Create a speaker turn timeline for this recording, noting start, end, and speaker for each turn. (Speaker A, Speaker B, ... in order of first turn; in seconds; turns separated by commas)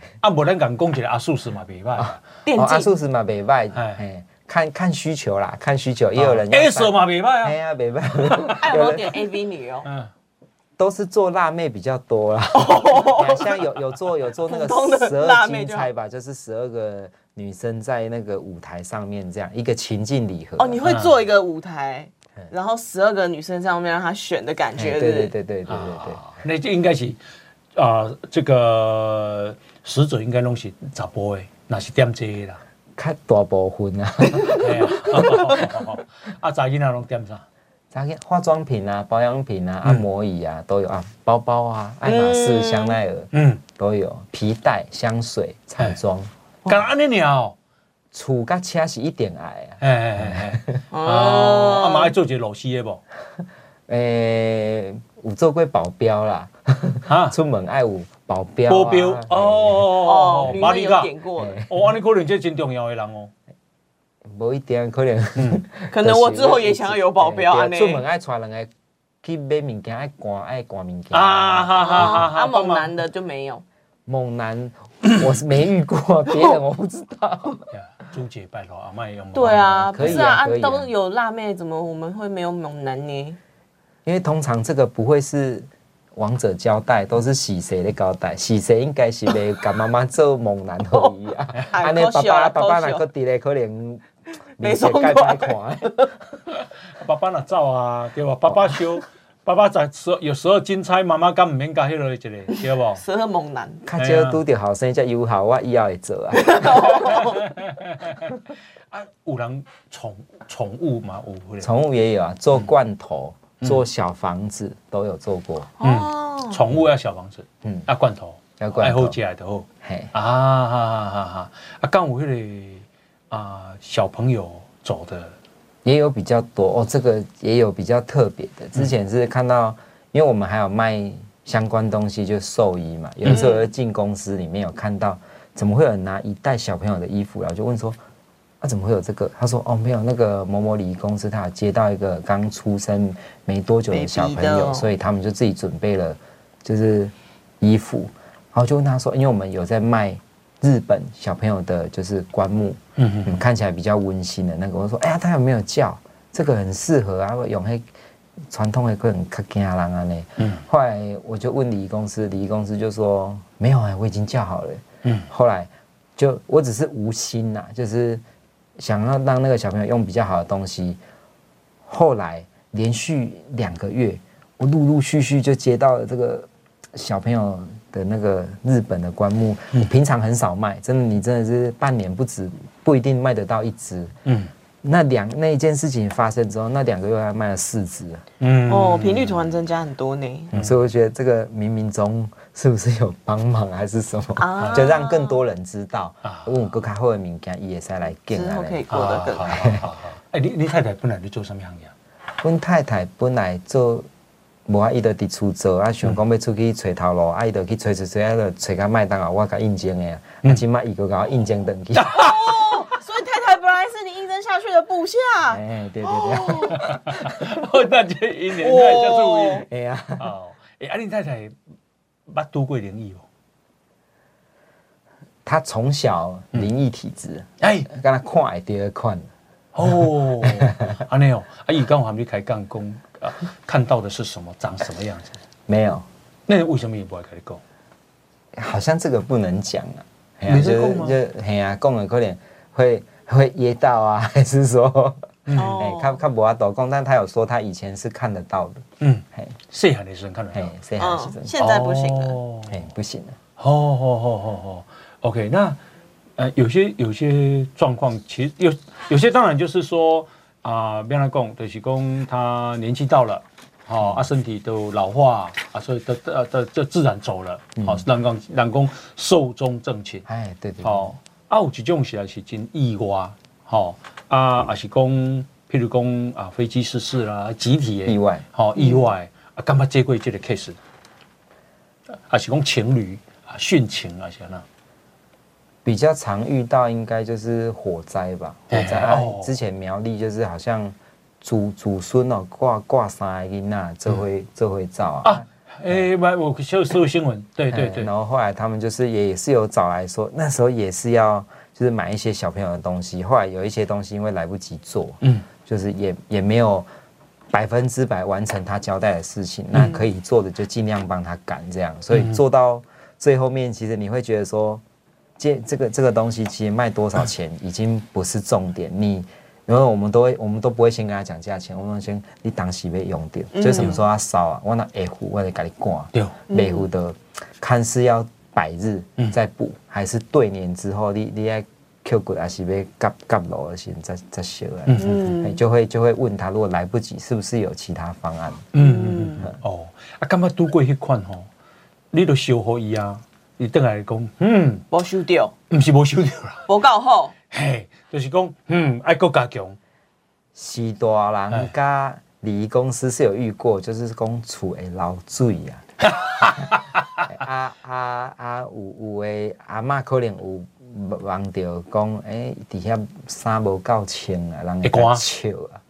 Speaker A: 0.2-2.2, Speaker B: 2.0-9.2, Speaker C: 2.4-2.9, Speaker A: 3.7-4.0, Speaker A: 6.2-7.6, Speaker A: 8.2-8.6, Speaker C: 8.5-9.9, Speaker A: 9.8-10.1, Speaker B: 10.8-20.8, Speaker C: 12.5-13.6, Speaker C: 14.4-15.9, Speaker C: 20.6-25.3, Speaker A: 20.8-21.1, Speaker B: 24.7-26.2, Speaker A: 25.7-27.2, Speaker A: 27.8-32.6, Speaker B: 33.0-35.7, Speaker A: 34.4-37.4, Speaker B: 37.9-46.8, Speaker C: 42.0-43.0, Speaker A: 43.3-43.6, Speaker A: 46.6-47.5, Speaker B: 48.1-50.8, Speaker A: 49.8-53.0, Speaker C: 50.9-52.1, Speaker B: 53.9-59.9, Speaker A: 57.1-57.4, Speaker A: 58.7-61.1, Speaker C: 59.9-61.6, Speaker B: 61.4-61.9, Speaker A: 61.7-63.3, Speaker B: 64.3-68.7, Speaker A: 65.4-65.6, Speaker C: 65.9-68.0, Speaker B: 69.2-72.3, Speaker A: 71.1-72.9, Speaker C: 71.8-73.6, Speaker B: 74.1-77.7, Speaker A: 77.7-80.3, Speaker C: 79.3-83.4, Speaker B: 79.9-80.9, Speaker B: 84.0-94.1, Speaker C: 91.7-93.0, Speaker B: 94.6-96.1, Speaker C: 94.6-96.1, Speaker A: 97.0-103.0, Speaker C: 102.9-103.8, Speaker B: 103.8-107.0, Speaker A: 104.0-104.4, Speaker C: 106.3-107.5, Speaker A: 107.0-111.7, Speaker B: 111.6-115.7, Speaker C: 115.8-116.6, Speaker A: 115.8-125.3, Speaker B: 118.6-119.2, Speaker B: 119.8-120.1, Speaker B: 125.8-138.0, Speaker C: 133.3-133.7, Speaker B: 138.6-157.8, Speaker C: 143.9-144.9, Speaker A: 153.0-153.4, Speaker B: 158.5-168.2, Speaker B: 168.8-171.0, Speaker B: 171.9-184.1, Speaker A: 184.2-184.5, Speaker B: 184.8-188.2, Speaker A: 188.4-189.5, Speaker C: 188.7-190.5, Speaker B: 190.5-198.8, Speaker C: 194.4-195.4, Speaker A: 194.6-194.8, Speaker A: 196.2-196.6, Speaker C: 198.3-199.5, Speaker A: 198.9-201.9, Speaker B: 199.4-199.9, Speaker B: 202.4-204.1, Speaker B: 204.7-212.2, Speaker A: 211.9-212.7, Speaker C: 212.1-216.9, Speaker B: 215.5-217.6, Speaker A: 216.7-221.5, Speaker C: 218.6-219.6, Speaker B: 219.6-220.3, Speaker A: 222.3-223.2, Speaker B: 225.4-229.3, Speaker A: 227.6-227.9, Speaker A: 229.7-235.4, Speaker B: 229.9-231.0, Speaker B: 235.7-236.1, Speaker A: 236.5-237.6, Speaker B: 238.5-249.6, Speaker A: 240.5-241.2, Speaker A: 245.5-245.8, Speaker C: 245.6-246.2, Speaker A: 249.0-250.7, Speaker B: 250.5-251.5, Speaker C: 251.0-252.4, Speaker A: 251.6-252.8, Speaker B: 252.7-253.4, Speaker A: 253.6-255.8, Speaker A: 256.4-270.2, Speaker B: 264.0-264.2, Speaker B: 267.8-268.0, Speaker B: 270.2-271.1, Speaker A: 270.8-280.8, Speaker B: 278.1-278.4, Speaker C: 278.8-279.1, Speaker A: 282.3-284.6, Speaker B: 285.8-295.4, Speaker A: 288.7-289.5, Speaker A: 295.2-298.1, Speaker B: 297.7-306.9, Speaker A: 305.2-305.5, Speaker B: 307.5-314.8, Speaker A: 312.1-312.4, Speaker B: 315.4-338.7, Speaker C: 323.5-324.0, Speaker A: 326.1-326.4, Speaker C: 326.5-326.9, Speaker A: 334.9-335.2, Speaker C: 334.9-335.6, Speaker A: 338.7-341.5, Speaker C: 338.7-339.5, Speaker A: 342.1-344.9, Speaker C: 344.9-345.5, Speaker A: 345.7-346.6, Speaker C: 346.7-347.3, Speaker A: 347.5-349.8, Speaker B: 350.5-355.8, Speaker A: 356.0-357.2, Speaker B: 356.4-365.8, Speaker A: 364.8-365.2